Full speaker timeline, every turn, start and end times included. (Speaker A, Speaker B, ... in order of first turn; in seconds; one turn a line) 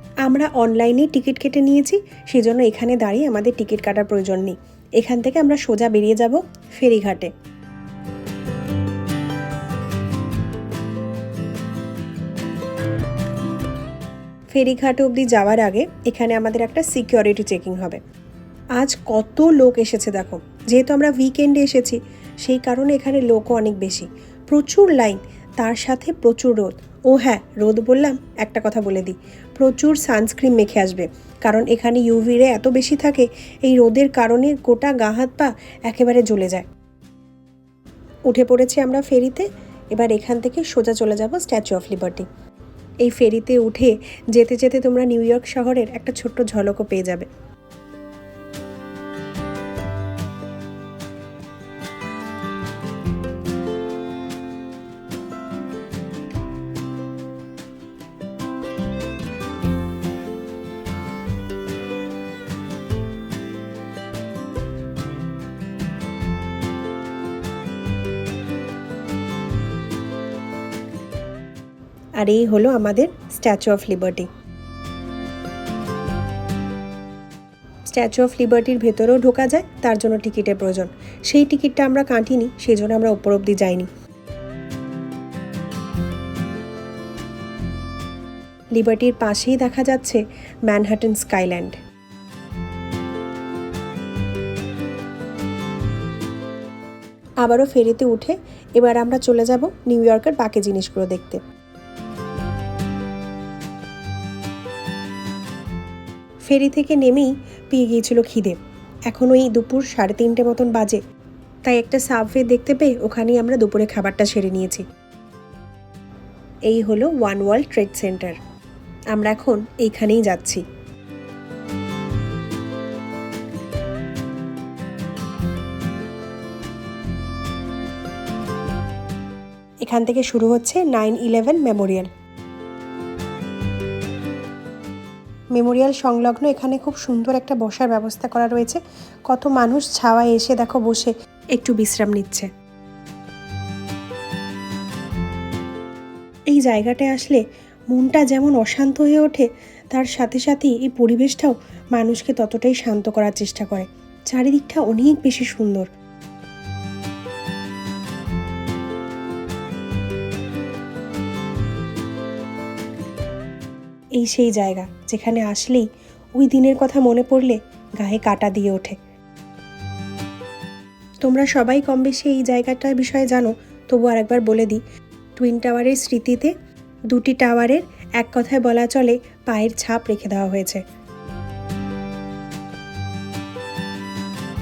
Speaker A: 0.2-7.3
Speaker A: 14.5-18.0
Speaker A: 18.8-36.7
Speaker A: 38.3-42.2
Speaker A: 43.0-47.3
Speaker A: 72.2-74.3
Speaker A: 77.9-83.9
Speaker A: 88.8-91.7
Speaker A: 97.4-101.4
Speaker A: 106.5-108.6
Speaker A: 109.1-111.0
Speaker A: 111.7-114.8
Speaker A: 116.7-118.4
Speaker A: 119.1-120.6
Speaker A: 129.8-132.1
Speaker A: 135.5-142.5
Speaker A: 146.5-155.9
Speaker A: 164.2-165.8
Speaker A: 166.4-168.9
Speaker A: 171.2-174.8
Speaker A: 175.4-176.5
Speaker A: 177.1-180.8